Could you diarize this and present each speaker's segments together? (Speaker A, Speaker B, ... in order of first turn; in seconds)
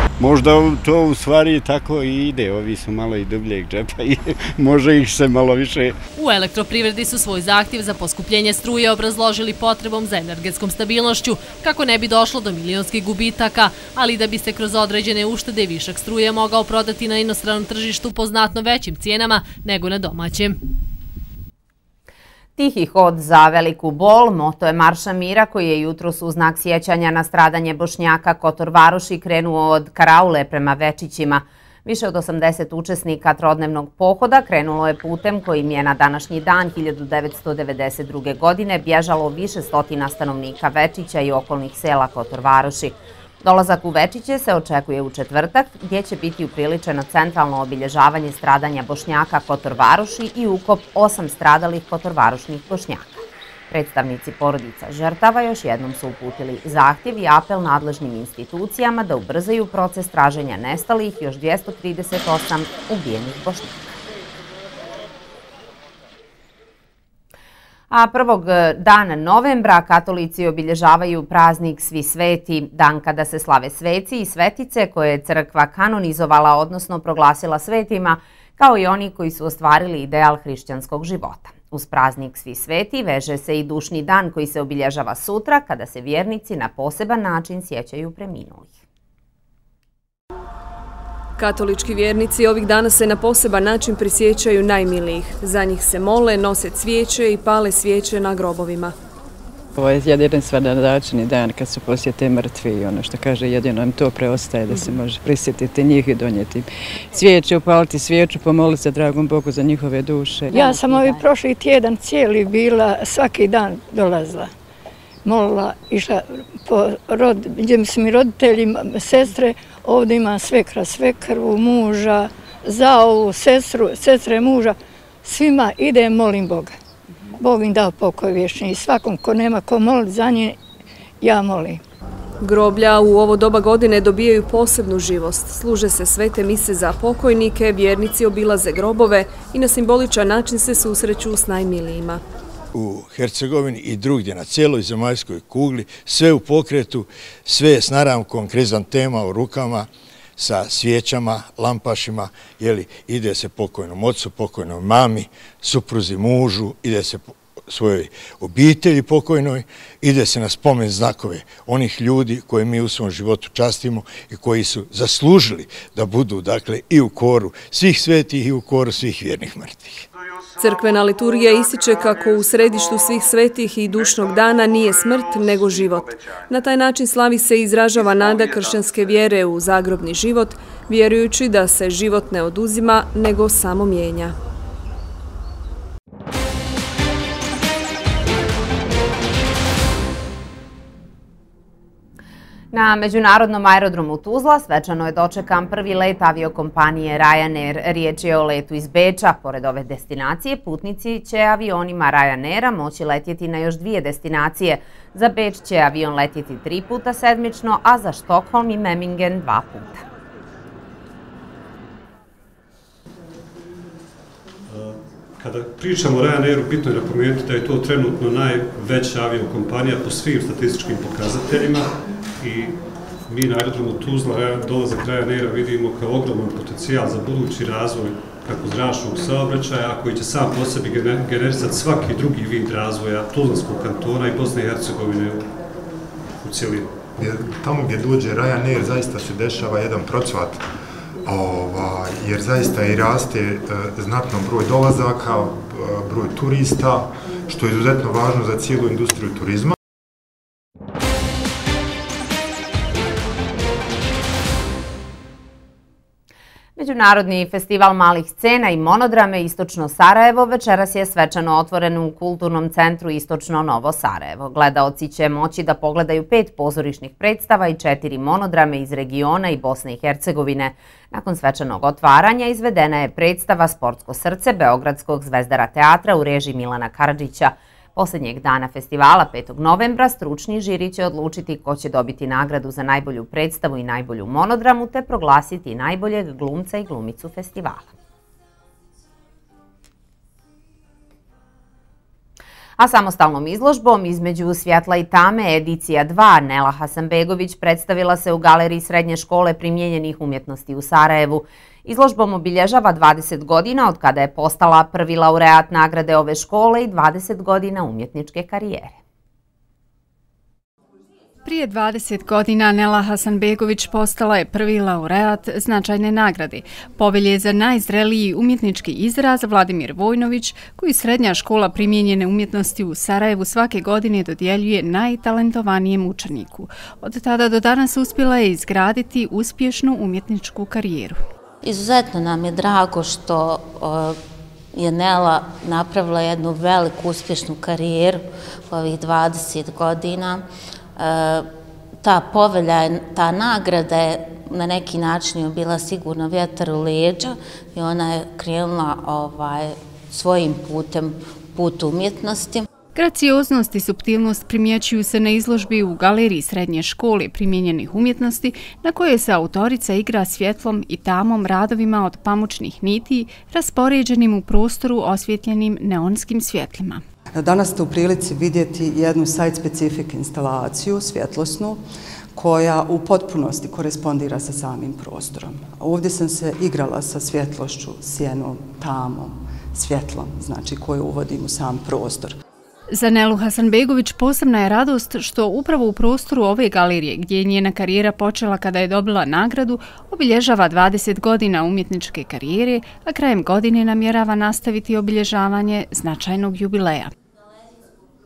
Speaker A: 0.4-0.9, 1.5-4.6
Speaker B: 6.2-20.6
Speaker C: 22.6-64.0, 67.9-88.8, 192.7-210.0, 256.8-287.9, 292.8-309.0
Speaker D: 91.4-98.9, 132.4-142.2, 170.6-184.3
Speaker E: 99.8-111.0
Speaker F: 104.7-105.0, 367.3-382.4
Speaker G: 110.5-111.2, 331.6-334.2, 334.7-340.4, 341.0-341.5, 342.0-352.6
Speaker H: 110.6-114.5, 115.3-124.7, 125.3-126.6, 127.5-130.5, 131.3-131.7
Speaker I: 110.8-111.3, 120.9-121.8, 123.0-124.6, 125.3-126.7, 127.5-130.6, 131.2-131.8, 215.4-221.8, 222.5-222.8, 223.3-235.4, 236.5-236.9
Speaker J: 142.7-170.1
Speaker K: 237.1-240.7, 241.2-249.8
Speaker L: 311.4-331.2, 352.9-367.0, 382.9-397.1